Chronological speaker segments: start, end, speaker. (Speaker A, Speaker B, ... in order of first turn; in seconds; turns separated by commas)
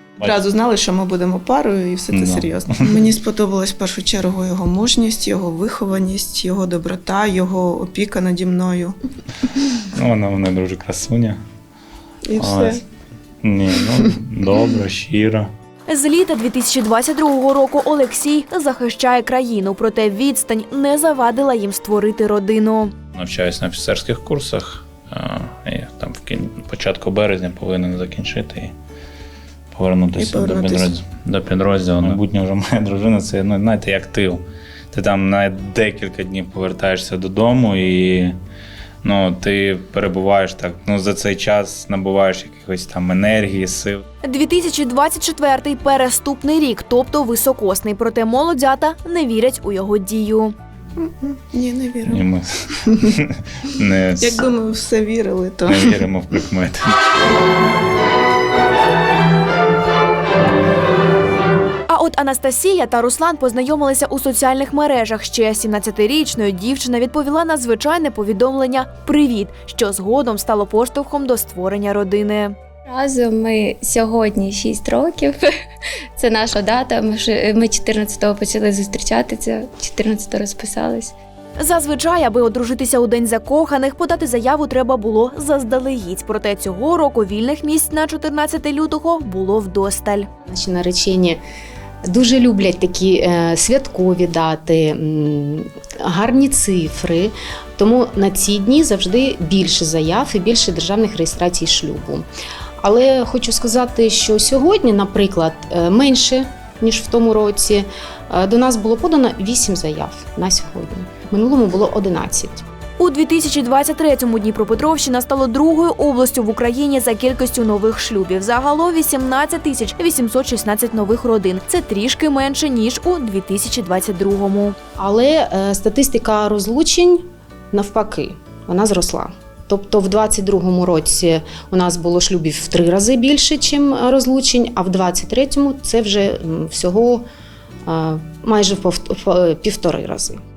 Speaker A: 0.2-9.0, Speaker B: 2.1-3.0, Speaker B: 9.9-11.4, Speaker A: 12.3-12.8, Speaker B: 12.4-12.8, Speaker B: 13.4-15.5, Speaker C: 15.9-22.9, Speaker B: 23.1-28.7, Speaker B: 29.7-38.4, Speaker A: 30.1-30.9, Speaker B: 39.0-44.0, Speaker C: 44.2-50.5, Speaker A: 51.0-52.2, Speaker B: 52.0-54.4, Speaker A: 54.2-56.0, Speaker B: 55.6-56.8, Speaker C: 61.9-72.5, Speaker D: 72.9-75.5, Speaker D: 76.2-81.1, Speaker C: 81.6-90.3, Speaker E: 90.5-91.4, Speaker E: 92.1-102.2, Speaker E: 102.8-112.6, Speaker C: 113.0-124.8, Speaker E: 125.0-137.2, Speaker E: 137.8-140.4